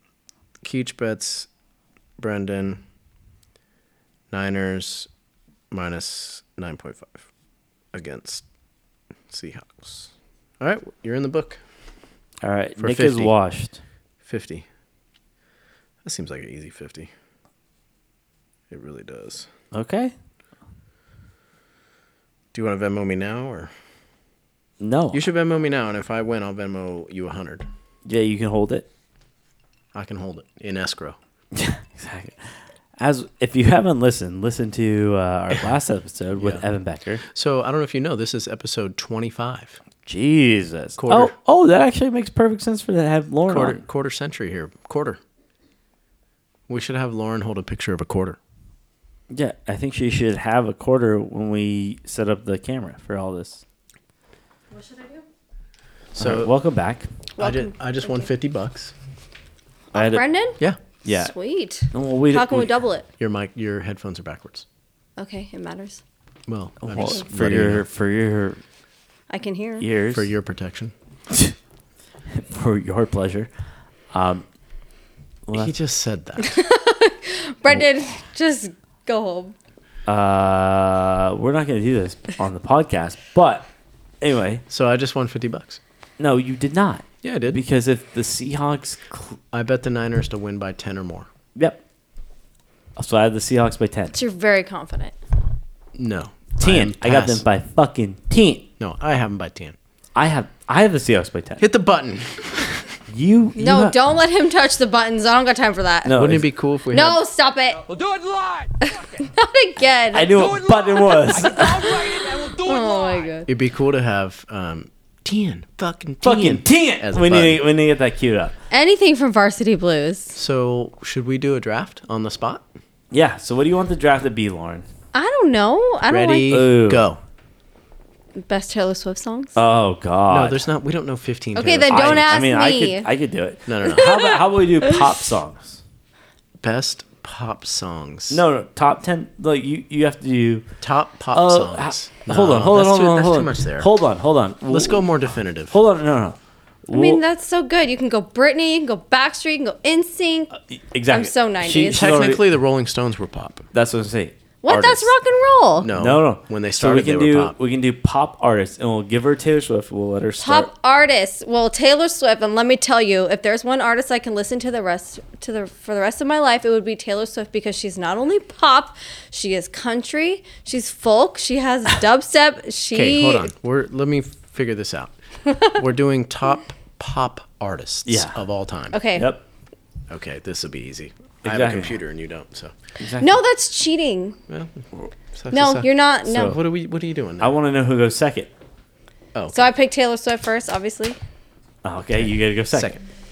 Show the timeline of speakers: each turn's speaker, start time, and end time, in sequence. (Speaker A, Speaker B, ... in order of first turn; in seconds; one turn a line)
Speaker A: 0.6-1.5
Speaker A: 2.2-2.8
Speaker A: 4.3-5.1
Speaker A: 5.7-7.2
Speaker A: 7.9-8.4
Speaker A: 9.3-11.6
Speaker B: 12.4-13.8
Speaker A: 12.8-13.3
Speaker A: 14.2-14.6
Speaker A: 16.0-17.1
Speaker A: 18.7-19.5
Speaker B: 19.7-20.1
Speaker A: 22.5-23.7
Speaker B: 24.8-25.2
Speaker A: 25.1-27.6
Speaker B: 28.1-28.9
Speaker A: 29.9-31.2
Speaker B: 31.5-32.4
Speaker B: 33.0-37.2
Speaker A: 36.4-36.6
Speaker A: 37.3-39.8
Speaker B: 40.0-43.8
Speaker A: 41.0-41.3
Speaker A: 43.5-45.2
Speaker A: 46.7-48.4
Speaker B: 49.3-53.6
Speaker C: 54.7-55.2
Speaker B: 56.1-57.1
Speaker A: 56.2-56.5
Speaker C: 57.4-58.3
Speaker A: 57.4-58.9
Speaker C: 59.9-63.0
Speaker B: 59.9-60.2
Speaker B: 61.0-61.3
Speaker B: 61.9-62.7
Speaker A: 63.2-64.6
Speaker C: 65.2-66.0
Speaker A: 66.5-67.8
Speaker B: 66.8-68.6
Speaker C: 69.3-69.9
Speaker B: 69.8-70.3
Speaker A: 70.1-70.9
Speaker B: 71.3-71.5
Speaker B: 72.3-73.5
Speaker B: 74.1-74.4
Speaker B: 75.5-75.7
Speaker A: 75.5-76.5
Speaker C: 76.4-79.5
Speaker B: 80.1-83.7
Speaker B: 84.2-84.6
Speaker A: 84.7-85.8
Speaker B: 86.2-89.4
Speaker A: 87.2-87.6
Speaker A: 89.5-91.3
Speaker B: 93.0-94.2
Speaker C: 94.1-95.1
Speaker A: 95.9-97.4
Speaker B: 96.6-98.7
Speaker A: 98.8-99.8
Speaker B: 100.1-101.6
Speaker A: 101.6-103.0
Speaker B: 103.1-104.0
Speaker C: 103.6-106.1
Speaker B: 106.0-106.5
Speaker A: 106.1-107.2
Speaker C: 106.9-107.8
Speaker D: 107.8-109.3
Speaker C: 109.2-110.5
Speaker B: 110.1-111.9
Speaker D: 110.3-113.3
Speaker C: 111.2-113.5
Speaker A: 113.5-117.6
Speaker B: 116.2-118.5
Speaker C: 118.7-120.3
Speaker A: 120.3-122.7
Speaker B: 123.1-124.8
Speaker C: 125.1-126.6
Speaker A: 126.1-127.2
Speaker B: 126.5-127.0
Speaker C: 128.4-129.6
Speaker B: 129.6-130.6
Speaker A: 130.3-132.3
Speaker C: 131.6-133.1
Speaker B: 131.9-135.8
Speaker A: 133.7-134.3
Speaker C: 133.9-135.1
Speaker A: 136.6-138.4
Speaker B: 138.3-140.7
Speaker A: 140.8-143.9
Speaker B: 141.3-145.0
Speaker A: 144.7-145.8
Speaker B: 145.7-147.2
Speaker C: 146.9-150.5
Speaker B: 150.7-152.4
Speaker C: 151.1-152.2
Speaker A: 151.9-153.7
Speaker B: 153.7-155.1
Speaker C: 154.6-155.9
Speaker A: 155.8-157.6
Speaker B: 155.9-160.7
Speaker C: 160.4-173.5
Speaker A: 172.9-178.9
Speaker B: 178.1-178.4
Speaker C: 178.9-179.3
Speaker B: 179.1-179.4
Speaker A: 180.1-182.7
Speaker B: 181.4-181.9
Speaker B: 183.0-183.4
Speaker C: 183.2-184.4
Speaker A: 184.5-187.5
Speaker C: 185.5-186.6
Speaker B: 186.3-186.5
Speaker B: 187.4-188.5
Speaker A: 189.3-189.7
Speaker C: 189.5-191.2
Speaker B: 191.8-192.9
Speaker A: 192.2-193.0